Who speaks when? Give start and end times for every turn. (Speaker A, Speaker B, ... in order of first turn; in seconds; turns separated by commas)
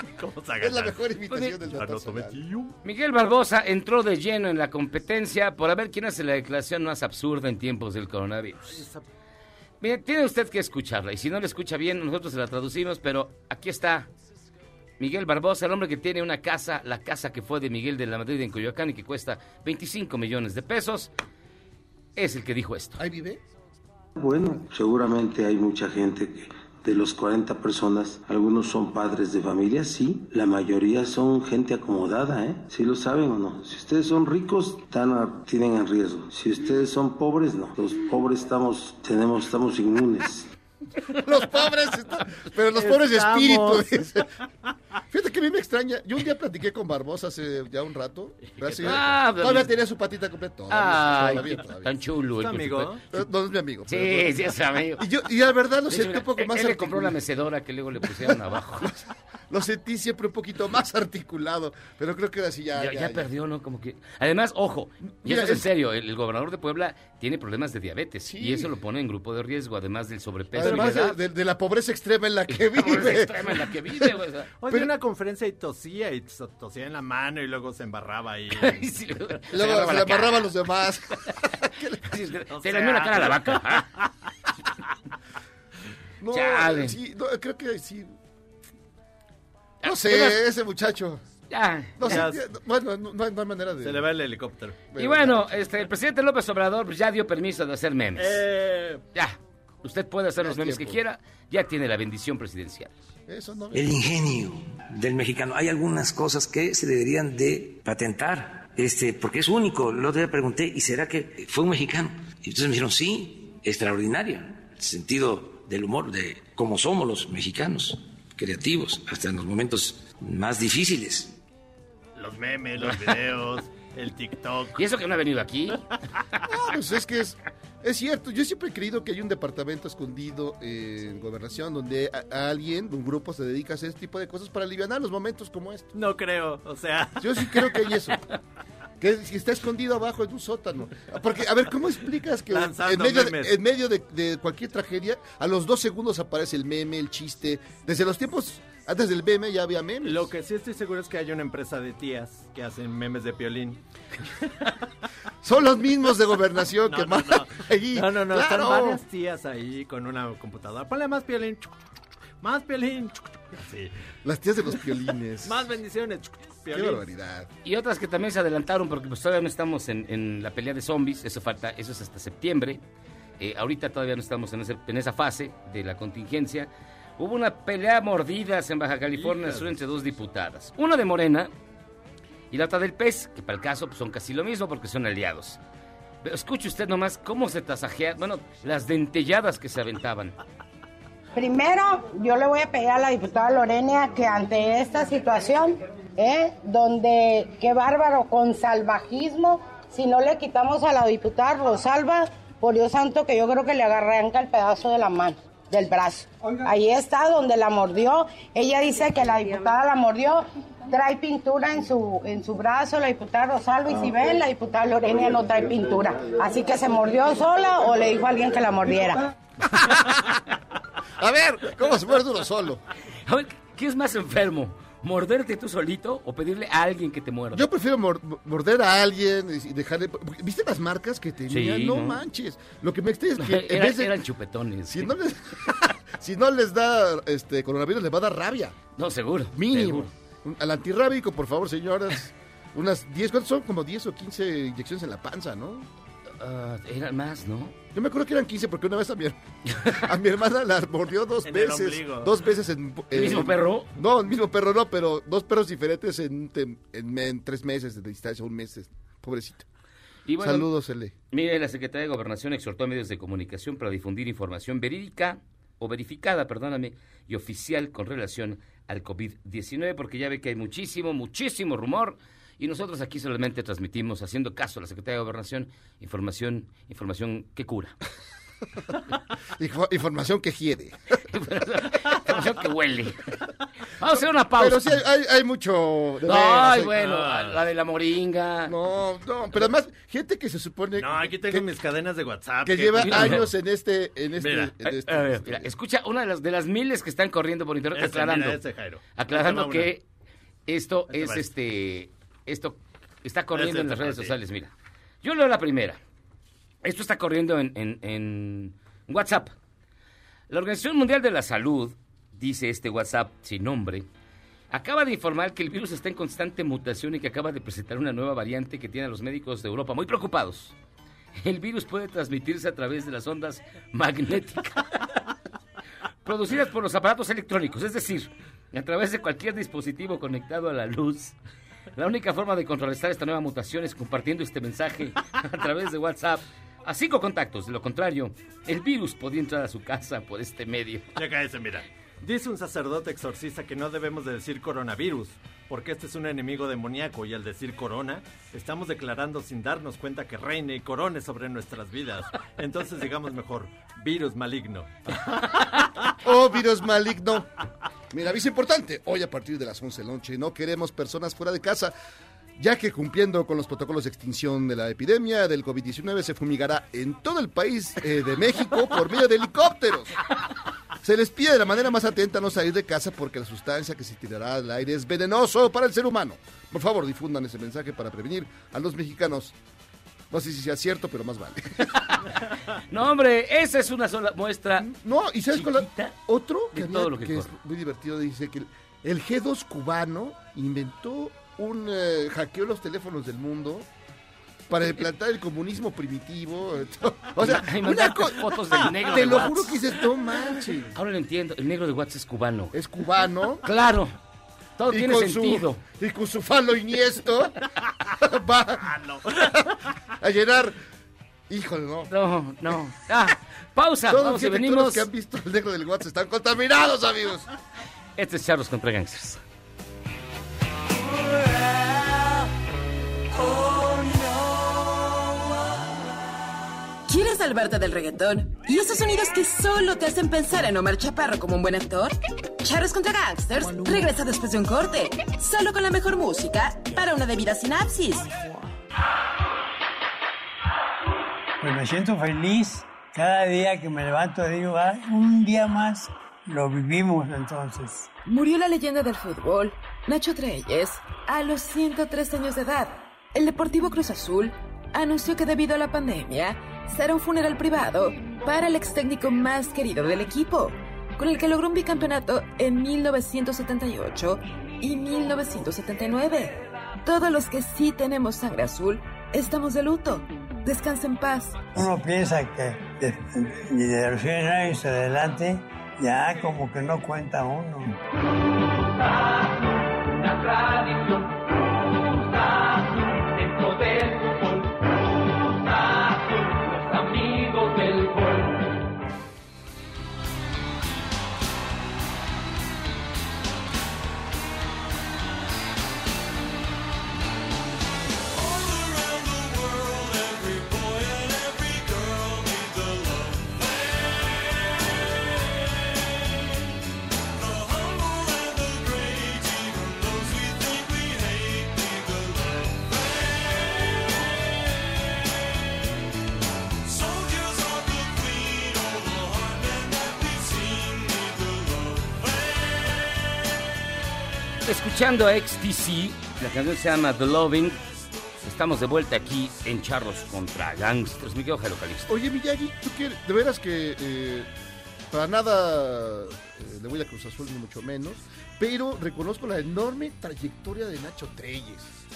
Speaker A: 0.2-1.0, Speaker B: 0.6-2.4, Speaker A: 1.6-2.7, Speaker C: 2.8-8.8, Speaker A: 8.7-9.0, Speaker C: 9.8-14.1, Speaker C: 15.0-21.1, Speaker C: 22.1-23.0, Speaker B: 23.0-23.4, Speaker D: 24.1-40.5, Speaker B: 41.2-44.3, Speaker A: 42.7-44.3, Speaker B: 45.1-51.9, Speaker A: 48.5-49.1, Speaker C: 48.8-49.7, Speaker C: 50.7-53.0, Speaker A: 52.4-53.0, Speaker B: 53.1-54.3, Speaker C: 53.9-55.0, Speaker B: 55.0-57.2, Speaker C: 55.9-58.9, Speaker B: 58.0-63.3, Speaker C: 62.7-71.1, Speaker B: 65.2-65.7, Speaker B: 68.2-68.8, Speaker B: 70.5-74.1, Speaker A: 70.6-71.1, Speaker C: 72.5-74.5, Speaker A: 74.6-78.9, Speaker C: 78.6-80.5, Speaker B: 79.5-82.0, Speaker C: 82.0-83.9, Speaker A: 82.5-84.1, Speaker B: 86.2-88.1, Speaker C: 86.3-87.0, Speaker C: 89.8-90.3, Speaker B: 89.8-91.2, Speaker C: 91.5-92.2, Speaker B: 92.0-94.0, Speaker A: 92.0-92.4, Speaker A: 93.8-94.8, Speaker B: 94.9-95.5, Speaker C: 95.0-98.4, Speaker A: 98.2-99.0, Speaker C: 99.1-102.9, Speaker B: 100.4-101.0, Speaker B: 103.3-103.9, Speaker E: 103.7-121.3, Speaker A: 122.2-124.8, Speaker C: 124.8-125.8, Speaker B: 126.5-135.9, Speaker A: 135.9-137.9, Speaker B: 137.2-138.2, Speaker B: 139.0-150.3, Speaker A: 142.5-143.6, Speaker A: 150.0-153.8, Speaker B: 155.4-159.0, Speaker A: 156.9-161.8, Speaker A: 162.4-163.9, Speaker B: 164.2-165.6, Speaker A: 165.4-167.1, Speaker B: 166.7-167.5, Speaker C: 167.6-172.8, Speaker C: 173.4-181.5, Speaker A: 179.1-179.8, Speaker C: 182.5-185.6, Speaker C: 186.2-190.4, Speaker F: 191.3-219.2, Speaker B: 219.6-220.4, Speaker B: 221.2-222.8, Speaker C: 223.2-227.6, Speaker B: 227.5-234.1, Speaker C: 231.5-232.2, Speaker C: 233.4-235.1, Speaker B: 234.9-238.8, Speaker C: 238.9-240.1, Speaker B: 239.5-245.9, Speaker C: 246.4-247.7, Speaker B: 247.9-259.7, Speaker C: 249.7-250.1, Speaker A: 251.4-252.3, Speaker C: 253.1-253.9, Speaker C: 260.3-260.7, Speaker B: 260.4-261.1, Speaker C: 261.3-277.9, Speaker B: 279.6-281.2, Speaker C: 281.3-283.3, Speaker C: 283.9-284.9, Speaker B: 284.6-286.9, Speaker C: 286.3-288.7, Speaker A: 286.9-287.6, Speaker B: 288.7-291.7, Speaker A: 291.0-293.5, Speaker B: 292.6-295.7, Speaker C: 293.0-293.4, Speaker A: 294.4-294.9, Speaker C: 295.1-298.6, Speaker A: 297.9-299.9, Speaker C: 299.1-300.0, Speaker C: 300.7-304.7, Speaker A: 301.1-301.5, Speaker A: 303.5-304.3, Speaker C: 305.2-306.0, Speaker C: 306.8-309.5, Speaker C: 310.5-314.1, Speaker C: 314.7-320.7, Speaker C: 321.4-324.9, Speaker C: 326.2-331.3, Speaker C: 331.9-341.1, Speaker A: 341.1-355.9, Speaker B: 356.2-357.5, Speaker B: 358.1-361.9, Speaker B: 362.6-370.2, Speaker B: 371.0-379.5, Speaker B: 380.3-382.0, Speaker C: 381.9-384.9, Speaker B: 384.8-393.9, Speaker C: 385.5-386.1, Speaker C: 386.7-387.5, Speaker B: 394.7-400.9, Speaker C: 397.4-399.8, Speaker C: 400.9-402.7, Speaker B: 402.7-403.6, Speaker C: 403.6-404.1, Speaker C: 404.8-405.8, Speaker B: 404.9-410.8, Speaker A: 408.9-409.5, Speaker B: 411.5-412.1, Speaker C: 412.1-415.1, Speaker B: 414.1-417.5, Speaker C: 418.2-419.4, Speaker G: 427.1-438.3, Speaker H: 433.6-434.1, Speaker H: 441.6-448.1, Speaker G: 448.2-471.6, Speaker H: 471.7-478.0, Speaker C: 487.4-487.6, Speaker C: 524.6-527.8, Speaker C: 528.4-532.1, Speaker B: 532.1-534.5, Speaker B: 535.1-542.0